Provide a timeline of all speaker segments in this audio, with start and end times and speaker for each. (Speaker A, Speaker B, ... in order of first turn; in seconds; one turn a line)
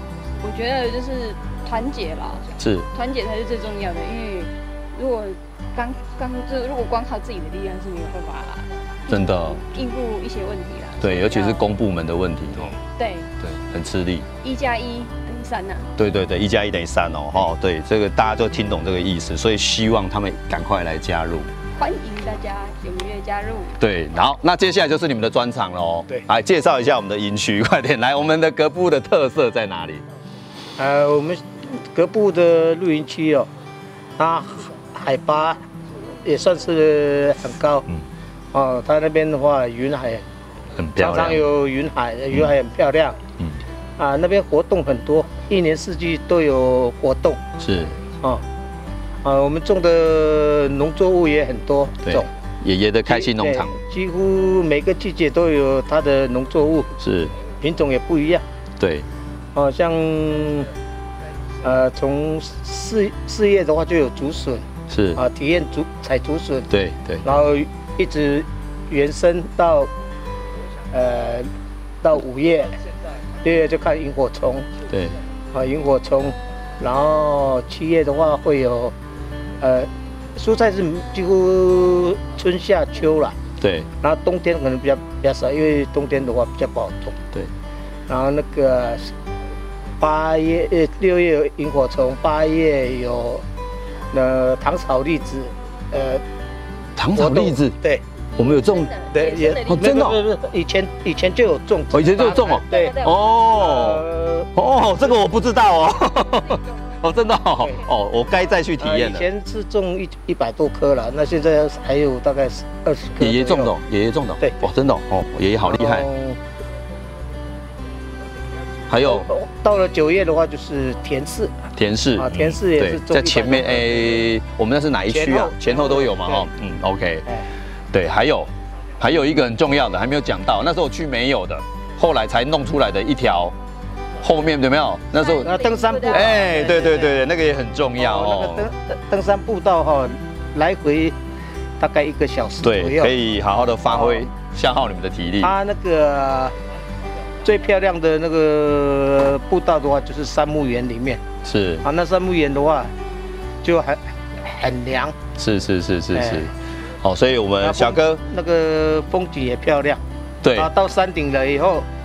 Speaker A: 0.4-11.7
Speaker B: 2.6-2.9
Speaker B: 9.1-9.6
Speaker B: 11.0-12.8
Speaker A: 12.9-13.3
Speaker B: 13.4-14.3
Speaker A: 14.4-15.9
Speaker B: 16.0-21.5
Speaker A: 21.8-23.8
Speaker B: 23.8-30.1
Speaker C: 30.8-31.4
Speaker C: 31.9-33.5
Speaker C: 34.2-35.6
Speaker C: 36.2-37.9
Speaker C: 38.5-40.2
Speaker B: 40.8-41.4
Speaker C: 41.0-43.2
Speaker C: 44.0-47.4
Speaker B: 47.6-48.0
Speaker C: 49.2-52.3
Speaker B: 52.0-53.8
Speaker C: 53.0-56.9
Speaker B: 57.0-57.3
Speaker C: 57.5-58.4
Speaker B: 58.8-59.1
Speaker C: 59.5-60.7
Speaker C: 61.6-66.7
Speaker B: 64.9-65.2
Speaker B: 66.7-67.3
Speaker C: 67.2-69.9
Speaker C: 70.9-71.5
Speaker C: 72.0-72.8
Speaker C: 73.4-74.7
Speaker B: 74.9-75.2
Speaker C: 75.5-79.0
Speaker C: 79.6-83.4
Speaker B: 83.6-83.9
Speaker C: 84.0-87.2
Speaker C: 88.1-89.1
Speaker C: 90.0-93.4
Speaker C: 94.1-96.2
Speaker B: 97.0-97.8
Speaker C: 97.1-98.0
Speaker A: 98.3-100.0
Speaker B: 98.4-98.9
Speaker C: 99.1-103.0
Speaker B: 99.7-100.2
Speaker B: 101.9-104.0
Speaker A: 102.6-103.4
Speaker C: 103.5-104.5
Speaker B: 104.6-109.3
Speaker C: 108.8-113.7
Speaker B: 113.2-116.1
Speaker C: 114.4-114.7
Speaker C: 115.6-116.4
Speaker B: 118.9-119.3
Speaker C: 119.0-121.5
Speaker B: 121.8-127.3
Speaker C: 122.2-124.2
Speaker C: 125.1-126.5
Speaker B: 127.9-133.6
Speaker B: 134.2-138.7
Speaker A: 135.2-136.4
Speaker C: 135.4-137.1
Speaker C: 138.0-141.2
Speaker C: 141.8-143.1
Speaker B: 142.6-145.5
Speaker C: 143.9-144.2
Speaker C: 145.4-146.5
Speaker C: 147.4-151.2
Speaker B: 151.4-151.8
Speaker C: 151.8-152.9
Speaker C: 153.6-155.2
Speaker B: 155.4-156.5
Speaker C: 156.1-156.5
Speaker B: 157.0-158.2
Speaker C: 157.6-160.0
Speaker B: 160.4-160.7
Speaker C: 160.5-161.9